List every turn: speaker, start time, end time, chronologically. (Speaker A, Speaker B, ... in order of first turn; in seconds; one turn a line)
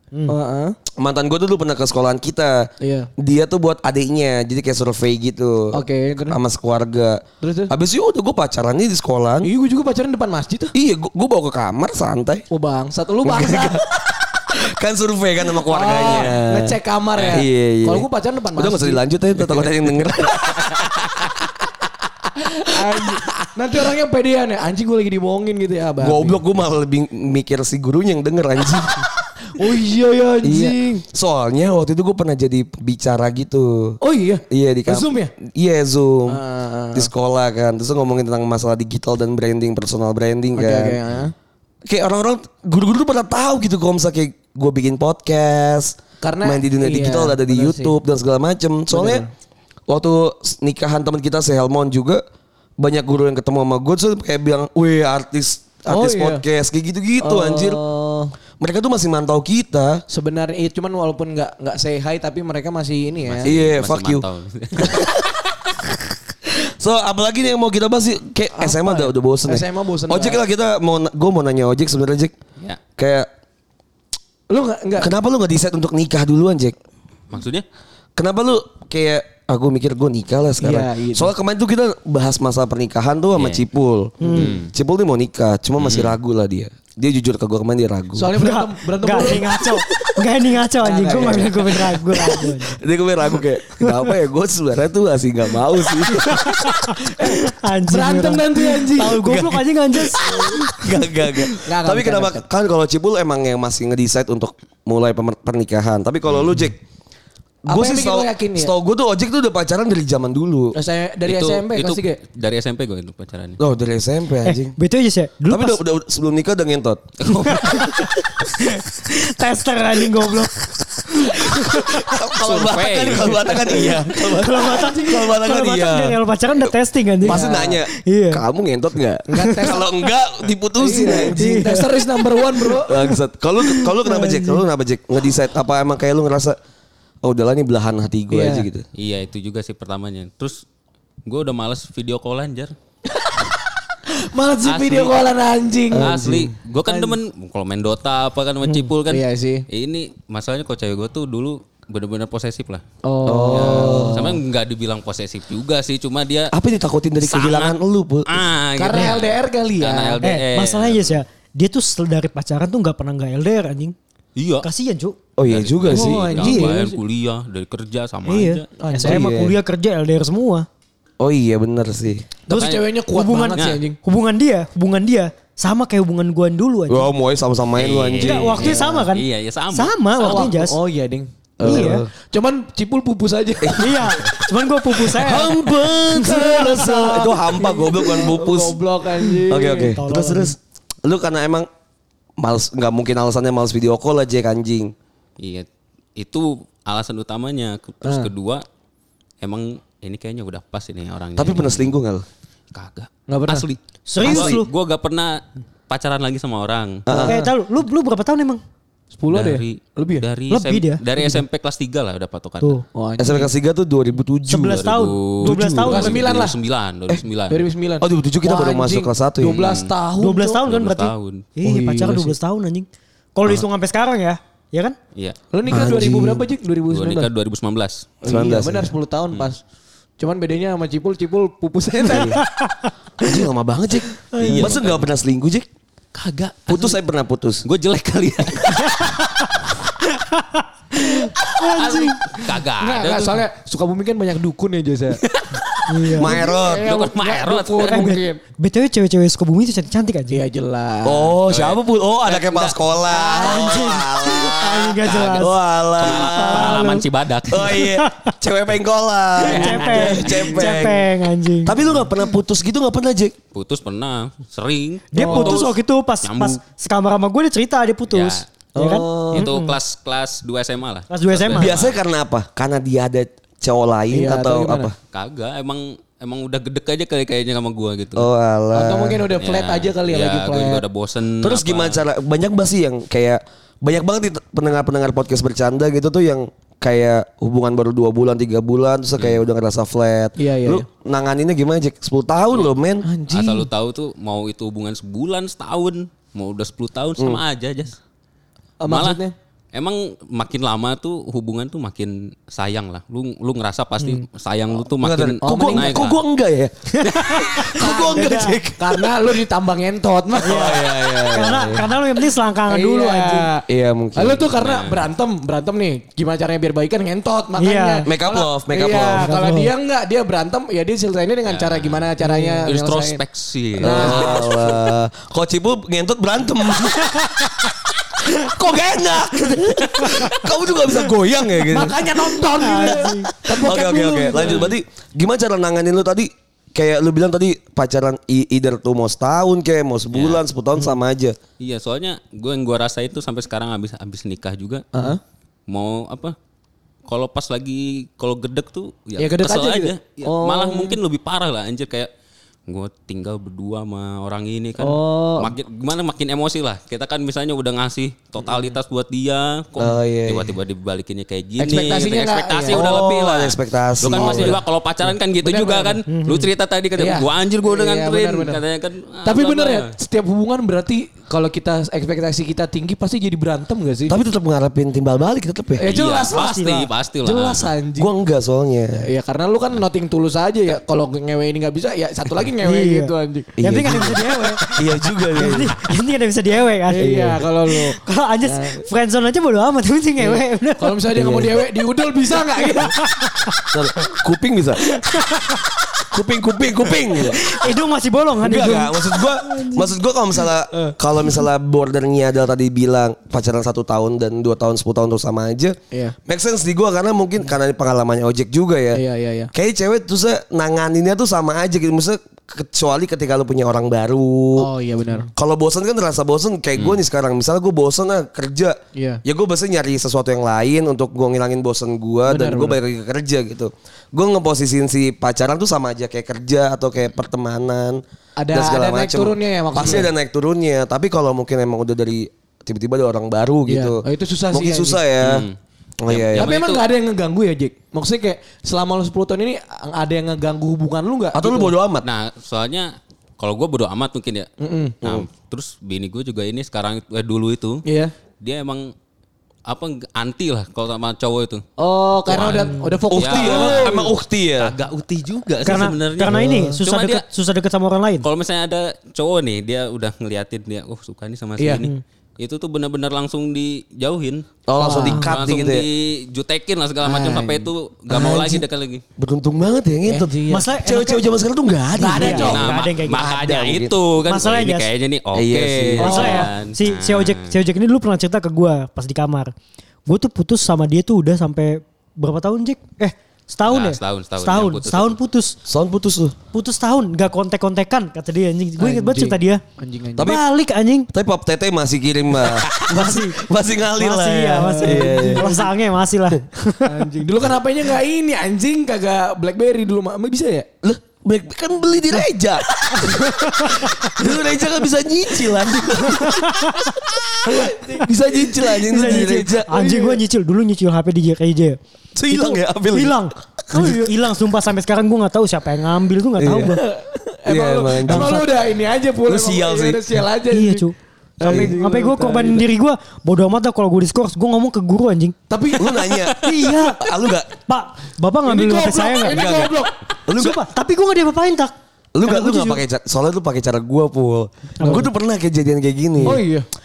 Speaker A: 0.3-0.8
Speaker B: 0.9-9.5
Speaker A: 2.8-3.1
Speaker A: 5.7-6.4
Speaker A: 7.4-7.7
Speaker A: 9.4-10.7
Speaker B: 10.7-12.4
Speaker A: 12.5-13.8
Speaker B: 13.2-20.9
Speaker A: 15.6-19.0
Speaker C: 17.2-17.4
Speaker A: 22.3-26.4
Speaker B: 26.0-29.1
Speaker A: 29.5-31.0
Speaker B: 30.4-34.0
Speaker A: 34.0-35.3
Speaker B: 34.5-36.4
Speaker A: 36.3-37.1
Speaker B: 36.9-41.0
Speaker A: 40.5-41.3
Speaker B: 41.9-49.2
Speaker A: 46.2-48.0
Speaker A: 48.9-49.3
Speaker B: 49.9-52.2
Speaker B: 52.8-57.8
Speaker A: 55.9-56.4
Speaker A: 57.2-58.3
Speaker B: 58.6-60.0
Speaker A: 60.1-63.5
Speaker C: 63.2-65.1
Speaker B: 63.4-64.2
Speaker B: 64.8-65.3
Speaker B: 66.5-72.3
Speaker A: 68.5-70.4
Speaker B: 73.0-73.3
Speaker A: 74.5-75.1
Speaker B: 75.0-76.8
Speaker C: 77.3-77.6
Speaker B: 78.2-88.5
Speaker A: 80.6-81.3
Speaker C: 83.3-83.6
Speaker D: 84.2-84.5
Speaker C: 84.3-84.7
Speaker C: 85.8-86.1
Speaker A: 88.1-89.7
Speaker D: 88.3-92.8
Speaker B: 89.9-90.1
Speaker A: 90.8-92.3
Speaker B: 91.1-96.8
Speaker D: 93.8-94.1
Speaker D: 96.2-100.9
Speaker A: 97.0-99.3
Speaker B: 99.1-106.8
Speaker A: 101.6-102.4
Speaker B: 107.7-110.7
Speaker A: 107.7-108.7
Speaker A: 110.7-112.2
Speaker C: 111.2-113.6
Speaker B: 113.6-114.8
Speaker D: 114.4-115.8
Speaker B: 115.5-118.2
Speaker C: 117.2-117.8
Speaker D: 117.4-118.1
Speaker D: 118.6-122.2
Speaker B: 121.2-126.7
Speaker C: 122.4-123.9
Speaker D: 124.1-128.4
Speaker B: 127.2-131.7
Speaker A: 127.2-127.8
Speaker A: 129.3-129.9
Speaker D: 129.4-129.7
Speaker A: 130.8-133.0
Speaker D: 131.3-132.3
Speaker B: 132.7-136.6
Speaker D: 133.0-134.6
Speaker B: 137.2-138.8
Speaker A: 138.3-138.7
Speaker C: 138.9-140.6
Speaker C: 141.2-142.7
Speaker A: 144.1-146.3
Speaker C: 144.6-145.3
Speaker B: 145.9-146.5
Speaker C: 145.9-152.8
Speaker A: 146.9-147.2
Speaker A: 149.0-149.7
Speaker A: 153.0-154.4
Speaker B: 153.2-154.3
Speaker C: 153.5-156.5
Speaker B: 156.5-158.4
Speaker C: 157.2-161.2
Speaker A: 158.8-160.2
Speaker D: 160.2-163.9
Speaker C: 164.3-164.7
Speaker D: 164.6-165.2
Speaker B: 165.4-166.3
Speaker C: 165.4-168.7
Speaker A: 165.9-167.0
Speaker D: 166.4-166.7
Speaker D: 168.2-170.7
Speaker A: 168.8-169.3
Speaker B: 169.0-169.5
Speaker B: 171.2-172.3
Speaker A: 172.5-174.0
Speaker C: 172.5-172.8
Speaker D: 172.5-177.1
Speaker C: 173.6-173.8
Speaker B: 176.9-178.8
Speaker C: 177.7-180.5
Speaker D: 178.2-180.8
Speaker A: 178.6-179.0
Speaker A: 180.2-184.2
Speaker B: 181.6-182.1
Speaker D: 181.6-182.0
Speaker B: 183.6-184.0
Speaker D: 183.8-187.3
Speaker B: 184.9-188.8
Speaker A: 186.8-190.0
Speaker B: 189.5-191.7
Speaker D: 189.6-190.5
Speaker B: 192.4-194.9
Speaker C: 195.4-198.6
Speaker A: 198.0-198.3
Speaker C: 199.4-201.9
Speaker B: 201.4-202.2
Speaker C: 202.7-207.0
Speaker A: 203.3-203.7
Speaker D: 204.1-204.7
Speaker B: 204.2-204.6
Speaker B: 207.1-207.4
Speaker A: 207.1-207.5
Speaker D: 207.2-208.6
Speaker A: 209.1-210.2
Speaker C: 209.3-212.8
Speaker D: 210.5-211.4
Speaker A: 212.9-213.5
Speaker B: 213.2-214.9
Speaker D: 214.5-216.2
Speaker C: 214.6-217.7
Speaker B: 215.4-216.0
Speaker A: 215.8-216.6
Speaker A: 217.5-220.6
Speaker B: 218.0-219.6
Speaker C: 219.4-219.9
Speaker D: 220.2-224.9
Speaker C: 220.6-221.5
Speaker A: 221.6-222.3
Speaker A: 225.5-227.3
Speaker B: 225.7-226.4
Speaker C: 226.9-228.1
Speaker A: 228.2-229.6
Speaker B: 228.2-228.9
Speaker A: 230.2-232.4
Speaker B: 232.1-232.4
Speaker D: 232.3-233.3
Speaker B: 233.2-235.7
Speaker D: 234.3-234.7
Speaker C: 234.4-235.1
Speaker C: 236.1-237.0
Speaker B: 236.7-237.6
Speaker C: 237.7-239.2
Speaker D: 238.8-239.5
Speaker D: 240.1-242.2
Speaker C: 241.6-243.4
Speaker A: 242.8-245.2
Speaker C: 245.2-248.1
Speaker D: 245.9-246.3
Speaker A: 246.2-248.4
Speaker B: 246.2-246.9
Speaker D: 247.9-250.4
Speaker A: 250.3-251.3
Speaker B: 251.0-256.9
Speaker C: 251.5-252.8
Speaker A: 253.1-253.8
Speaker D: 253.3-255.5
Speaker C: 255.0-257.8
Speaker D: 256.3-257.0
Speaker A: 256.6-256.9
Speaker B: 257.5-261.0
Speaker D: 257.6-258.3
Speaker D: 259.4-261.8
Speaker C: 259.4-260.8
Speaker B: 261.6-263.4
Speaker C: 263.5-266.6
Speaker D: 265.1-269.8
Speaker A: 265.2-265.6
Speaker C: 268.1-268.4
Speaker A: 268.7-269.5
Speaker C: 269.3-272.0
Speaker D: 271.1-271.8
Speaker B: 271.5-274.9
Speaker A: 274.1-274.9
Speaker C: 275.1-278.3
Speaker B: 278.1-279.3
Speaker A: 278.7-280.8
Speaker C: 279.4-282.0
Speaker B: 281.4-293.1
Speaker A: 290.4-290.8
Speaker A: 293.0-293.7
Speaker C: 293.3-298.0
Speaker A: 298.8-299.3
Speaker C: 298.9-299.2
Speaker C: 299.7-306.2
Speaker B: 304.9-309.3
Speaker A: 305.4-306.1
Speaker D: 307.0-308.6
Speaker A: 307.8-310.7
Speaker B: 310.4-311.9
Speaker D: 310.4-313.5
Speaker A: 312.7-323.2
Speaker B: 313.7-314.5
Speaker C: 314.6-315.1
Speaker D: 317.6-318.1
Speaker B: 318.1-319.3
Speaker D: 319.0-319.7
Speaker C: 321.4-322.1
Speaker D: 322.2-322.7
Speaker C: 322.7-324.4
Speaker A: 323.8-324.5
Speaker B: 323.8-327.5
Speaker B: 328.3-341.4
Speaker A: 331.7-334.7
Speaker D: 332.5-333.3
Speaker C: 340.1-340.4
Speaker C: 341.6-344.9
Speaker A: 344.9-345.2
Speaker C: 345.7-346.4
Speaker C: 347.1-352.1
Speaker A: 349.2-351.0
Speaker C: 352.7-369.9
Speaker A: 354.8-355.5
Speaker A: 358.4-358.7
Speaker B: 359.8-360.5
Speaker A: 361.6-363.0
Speaker B: 362.7-364.6
Speaker A: 364.1-364.6
Speaker A: 365.4-366.0
Speaker D: 366.1-366.5
Speaker A: 367.0-368.6
Speaker A: 369.2-374.1
Speaker B: 374.1-375.9
Speaker A: 375.8-376.7
Speaker C: 375.9-377.7
Speaker D: 376.3-376.9
Speaker A: 377.2-378.1
Speaker B: 378.0-379.1
Speaker A: 379.0-383.5
Speaker D: 382.6-391.0
Speaker B: 383.6-385.7
Speaker A: 386.9-388.8
Speaker B: 387.0-387.4
Speaker A: 390.2-392.9
Speaker B: 391.1-391.6
Speaker D: 392.6-393.6
Speaker B: 393.7-394.8
Speaker D: 394.8-395.6
Speaker B: 396.1-397.4
Speaker D: 397.2-399.9
Speaker B: 398.4-409.0
Speaker A: 408.9-409.5
Speaker B: 409.5-414.7
Speaker A: 414.6-415.3
Speaker B: 415.3-435.4
Speaker A: 418.9-419.2
Speaker A: 422.3-422.8
Speaker A: 428.4-430.1
Speaker A: 433.7-435.0
Speaker C: 435.2-435.6
Speaker B: 436.0-436.5
Speaker C: 436.1-436.8
Speaker A: 436.3-441.7
Speaker B: 441.3-442.0
Speaker C: 442.0-444.5
Speaker A: 444.6-445.0
Speaker C: 445.0-447.8
Speaker A: 447.9-448.1
Speaker C: 448.4-448.9
Speaker C: 449.6-451.6
Speaker A: 451.8-454.1
Speaker C: 452.3-457.2
Speaker B: 453.1-454.7
Speaker D: 455.6-458.2
Speaker A: 456.3-456.7
Speaker C: 458.2-464.5
Speaker A: 461.6-461.9
Speaker B: 464.7-465.9
Speaker A: 464.8-465.2
Speaker C: 465.0-469.0
Speaker A: 467.0-468.6
Speaker B: 469.2-473.9
Speaker A: 470.1-470.7
Speaker D: 470.5-471.2
Speaker A: 471.9-472.7
Speaker D: 472.1-473.3
Speaker C: 472.3-477.5
Speaker D: 474.3-474.9
Speaker B: 475.3-476.4
Speaker A: 476.0-476.5
Speaker D: 476.0-479.5
Speaker D: 480.1-485.6
Speaker C: 483.7-485.2
Speaker B: 485.6-486.3
Speaker D: 486.5-489.6
Speaker A: 488.8-490.4
Speaker B: 490.1-490.4
Speaker D: 490.2-491.1
Speaker B: 491.1-495.6
Speaker D: 492.9-493.4
Speaker D: 493.9-497.0
Speaker A: 494.6-495.7
Speaker A: 496.8-500.7
Speaker B: 500.8-509.7
Speaker D: 506.1-506.9
Speaker A: 507.7-508.1
Speaker D: 508.8-511.8
Speaker A: 508.9-510.2
Speaker B: 512.1-513.2
Speaker D: 512.3-516.8
Speaker A: 513.7-514.1
Speaker B: 516.4-516.8
Speaker A: 516.7-520.9
Speaker B: 517.5-518.5
Speaker D: 518.0-518.4
Speaker B: 519.3-520.0
Speaker D: 520.5-525.4
Speaker A: 521.4-522.6
Speaker B: 521.4-521.7
Speaker A: 525.5-526.1
Speaker B: 525.8-527.5
Speaker C: 526.1-526.4
Speaker D: 526.4-527.0
Speaker D: 527.7-529.7
Speaker A: 528.5-529.9
Speaker B: 529.3-529.7
Speaker B: 530.2-530.6
Speaker D: 530.4-531.7
Speaker B: 532.1-536.4
Speaker D: 532.2-532.8
Speaker D: 534.8-535.1
Speaker A: 534.8-535.1
Speaker A: 536.2-536.7